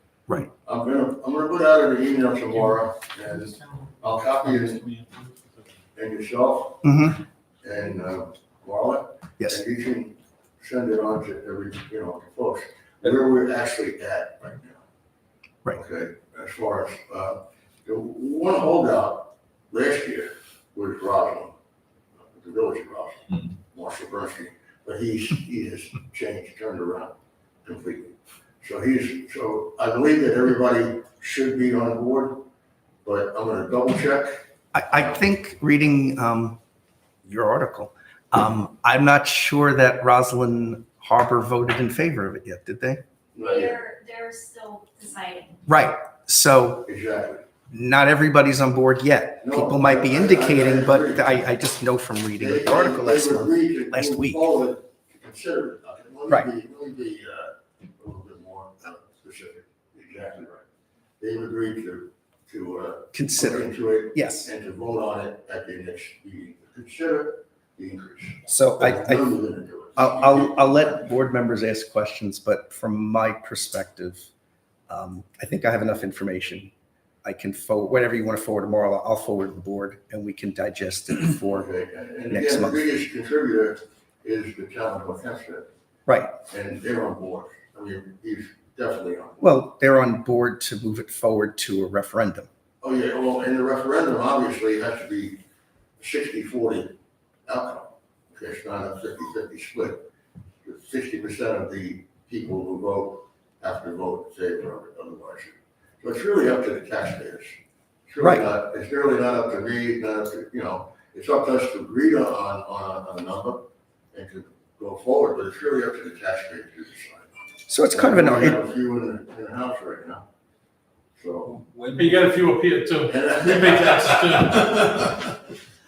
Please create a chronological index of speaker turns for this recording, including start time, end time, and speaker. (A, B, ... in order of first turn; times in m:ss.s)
0:00.6-0:04.9 A
0:06.0-0:07.1 A
0:06.8-0:07.2 B
0:07.6-0:14.9 A
0:15.7-0:21.6 A
0:22.2-0:32.4 A
0:33.0-0:34.4 A
0:34.7-0:36.6 B
0:34.9-0:35.2 A
0:37.2-0:43.0 B
0:43.4-0:43.8 A
0:43.4-0:45.6 C
0:45.7-0:46.9 B
0:46.9-0:47.5 A
0:47.7-0:54.4 B
0:49.4-0:51.5 A
0:52.4-1:00.7 A
1:01.2-1:11.0 A
1:03.1-1:04.5 B
1:08.5-1:09.4 B
1:10.0-1:14.3 B
1:14.9-1:16.7 B
1:17.2-1:21.7 B
1:21.5-1:25.7 A
1:22.3-1:22.8 B
1:26.1-1:26.4 B
1:26.5-1:29.4 A
1:29.4-1:32.5 B
1:32.8-1:35.4 A
1:36.0-1:40.1 A
1:40.6-1:57.3 A
1:48.2-1:48.5 B
1:57.7-1:58.6 B
1:57.9-2:00.3 A
2:01.2-2:01.6 A
2:01.9-2:05.1 D
2:03.0-2:05.2 A